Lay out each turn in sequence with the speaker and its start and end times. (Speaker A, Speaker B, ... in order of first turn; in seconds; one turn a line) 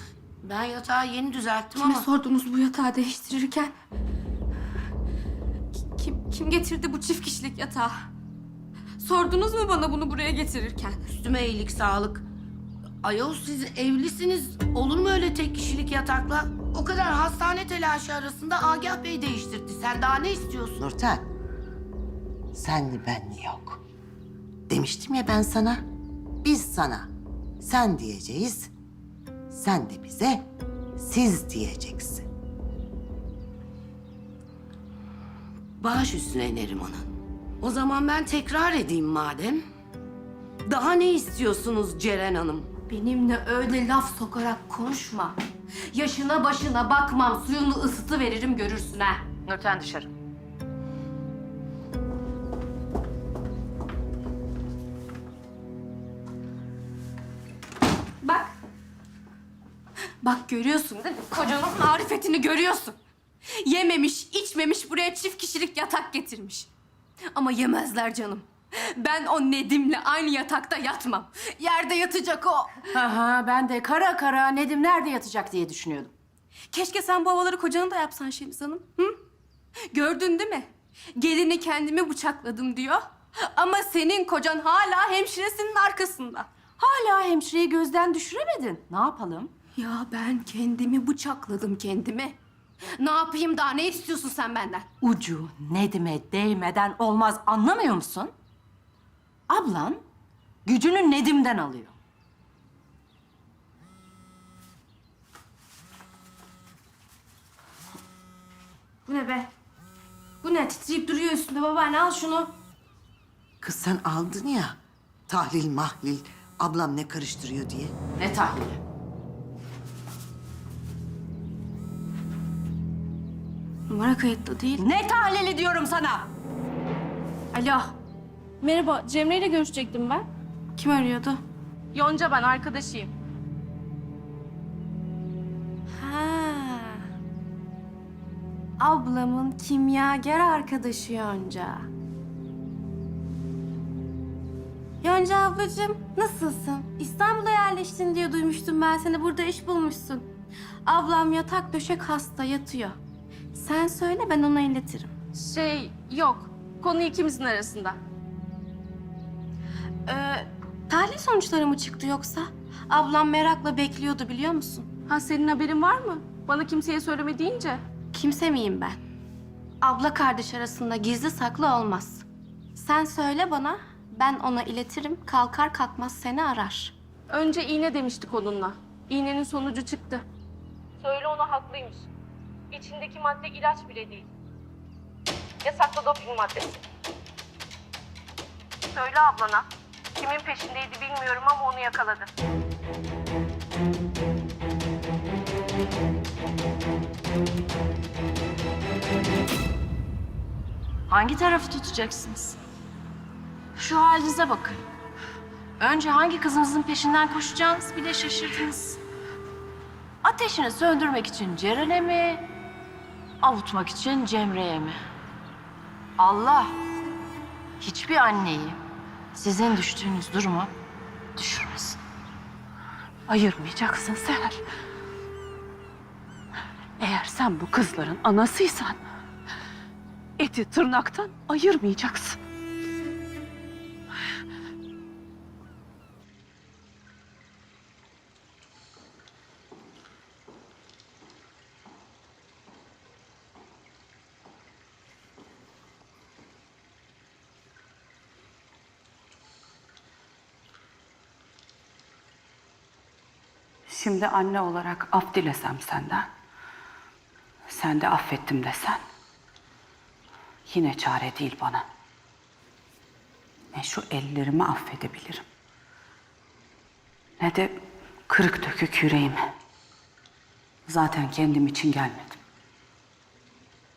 Speaker A: 0.4-2.0
Speaker B: 1.8-3.7
Speaker B: 5.8-8.1
Speaker B: 9.0-11.1
Speaker A: 11.2-12.2
Speaker A: 13.0-20.9
Speaker C: 20.8-21.2
Speaker C: 22.5-23.8
Speaker C: 24.7-25.8
Speaker C: 26.4-28.7
Speaker C: 29.5-30.5
Speaker C: 31.0-32.3
Speaker A: 35.8-37.1
Speaker A: 37.6-39.6
Speaker A: 40.6-42.7
Speaker B: 42.9-45.4
Speaker B: 45.9-49.3
Speaker B: 58.2-58.5
Speaker B: 60.2-63.0
Speaker B: 63.5-66.7
Speaker B: 67.3-72.9
Speaker D: 72.9-76.1
Speaker B: 76.7-79.2
Speaker B: 79.9-86.5
Speaker D: 86.8-89.5
Speaker B: 89.8-92.4
Speaker B: 92.9-94.9
Speaker D: 95.0-98.3
Speaker D: 99.5-100.0
Speaker D: 100.6-102.0
Speaker B: 109.1-109.5
Speaker B: 110.4-112.5
Speaker C: 113.6-118.0
Speaker D: 118.2-118.8
Speaker B: 123.9-124.9
Speaker D: 124.8-126.3
Speaker B: 127.5-127.8
Speaker E: 128.6-130.2
Speaker B: 130.8-131.4
Speaker E: 131.9-133.1
Speaker B: 135.9-137.1
Speaker B: 138.8-141.9
Speaker B: 145.0-150.3
Speaker B: 150.8-153.0
Speaker B: 153.5-155.1
Speaker E: 155.3-158.0
Speaker B: 160.1-164.9
Speaker E: 165.1-167.8
Speaker B: 168.1-169.0
Speaker B: 169.8-176.9
Speaker E: 177.3-180.2
Speaker E: 181.0-182.1
Speaker E: 182.7-184.3
Speaker E: 185.6-186.8
Speaker E: 188.9-189.7
Speaker E: 190.2-192.3
Speaker D: 201.1-202.6
Speaker D: 203.8-204.8
Speaker D: 205.8-209.0
Speaker D: 210.2-212.5
Speaker D: 213.4-215.0
Speaker D: 216.2-216.8
Speaker D: 217.8-218.8
Speaker D: 219.3-220.7
Speaker D: 221.3-222.0
Speaker F: 223.3-224.6
Speaker F: 227.0-229.0
Speaker F: 230.4-232.4
Speaker F: 253.9-256.2
Speaker F: 257.7-259.0
Speaker F: 260.7-261.8
Speaker F: 263.7-265.4
Speaker F: 267.4-267.7
Speaker F: 268.3-269.4
Speaker F: 270.9-272.4